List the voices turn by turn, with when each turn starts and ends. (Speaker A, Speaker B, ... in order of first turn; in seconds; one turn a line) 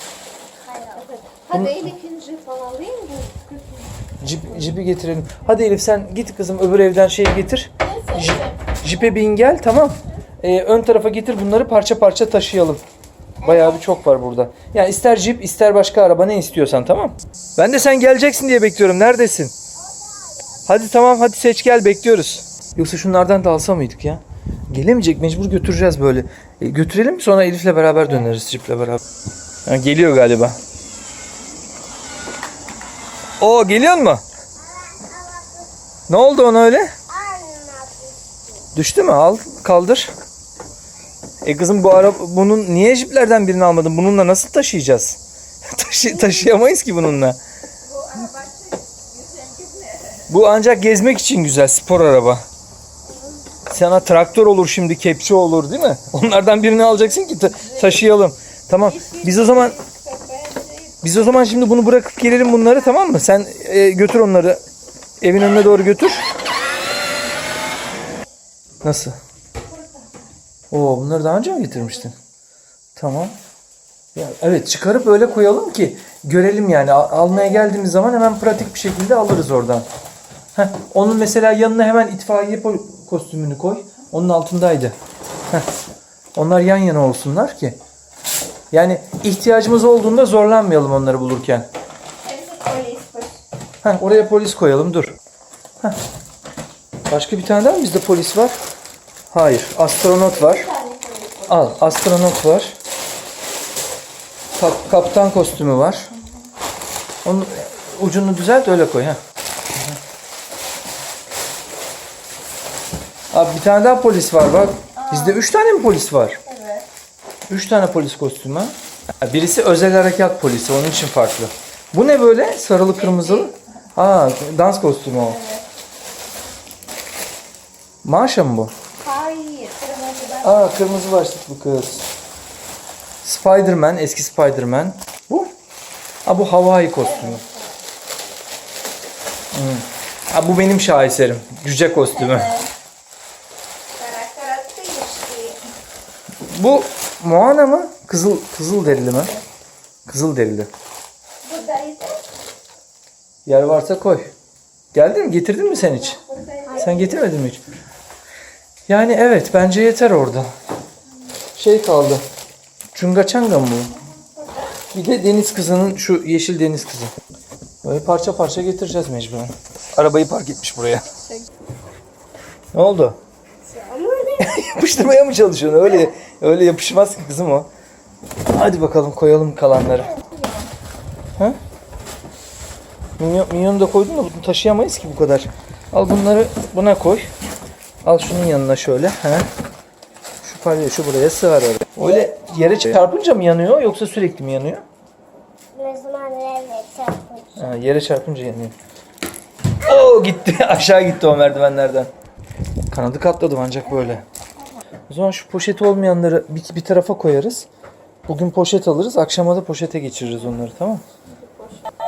Speaker A: 0.7-1.1
Speaker B: 1.0-3.9
Speaker C: 1.5-1.9
Speaker C: 4.2-12.8
Speaker A: 7.8-8.6
Speaker A: 13.4-13.8
Speaker C: 13.4-19.5
Speaker C: 20.6-29.0
Speaker C: 29.6-30.6
Speaker C: 33.4-34.2
Speaker A: 34.6-35.7
Speaker C: 36.1-36.9
Speaker A: 37.1-38.6
Speaker C: 38.7-40.1
Speaker C: 41.4-47.4
Speaker B: 47.9-50.2
Speaker C: 50.3-52.4
Speaker C: 53.7-59.8
Speaker B: 57.5-58.0
Speaker B: 58.8-61.0
Speaker C: 61.0-64.6
Speaker C: 65.2-66.2
Speaker C: 68.8-69.2
Speaker C: 70.7-72.2
Speaker C: 73.0-73.3
Speaker C: 74.1-79.8
Speaker C: 80.5-85.0
Speaker C: 86.3-87.8
Speaker C: 88.7-91.7
Speaker B: 92.2-93.4
Speaker C: 93.8-95.2
Speaker C: 97.1-98.5
Speaker C: 99.3-100.7
Speaker B: 100.3-101.9
Speaker C: 101.5-102.7
Speaker C: 104.5-106.1
Speaker C: 107.2-109.2
Speaker C: 113.3-116.4
Speaker B: 115.0-115.4
Speaker B: 116.4-116.8
Speaker C: 117.5-125.4
Speaker B: 123.0-123.5
Speaker C: 128.0-128.7
Speaker B: 129.0-130.8
Speaker C: 130.4-132.1
Speaker C: 133.2-135.5
Speaker C: 136.2-137.4
Speaker B: 137.0-137.7
Speaker C: 139.5-142.6
Speaker B: 142.3-142.6
Speaker B: 144.0-145.6
Speaker C: 146.4-149.4
Speaker C: 150.1-150.7
Speaker B: 151.4-152.2
Speaker C: 153.4-154.3
Speaker C: 154.9-156.2
Speaker B: 155.8-157.1
Speaker C: 156.8-157.6
Speaker C: 158.9-160.5
Speaker C: 161.6-162.2
Speaker C: 162.9-163.9
Speaker C: 164.9-167.1
Speaker C: 167.8-171.1
Speaker C: 172.7-173.2
Speaker A: 173.7-174.5
Speaker C: 174.4-177.7
Speaker C: 178.5-180.1
Speaker C: 183.2-187.3
Speaker C: 188.0-189.5
Speaker C: 190.4-194.8
Speaker A: 195.7-197.6
Speaker C: 197.6-198.7
Speaker C: 199.8-202.1
Speaker C: 202.9-204.2
Speaker C: 205.1-207.7
Speaker C: 208.3-211.0
Speaker B: 211.3-211.8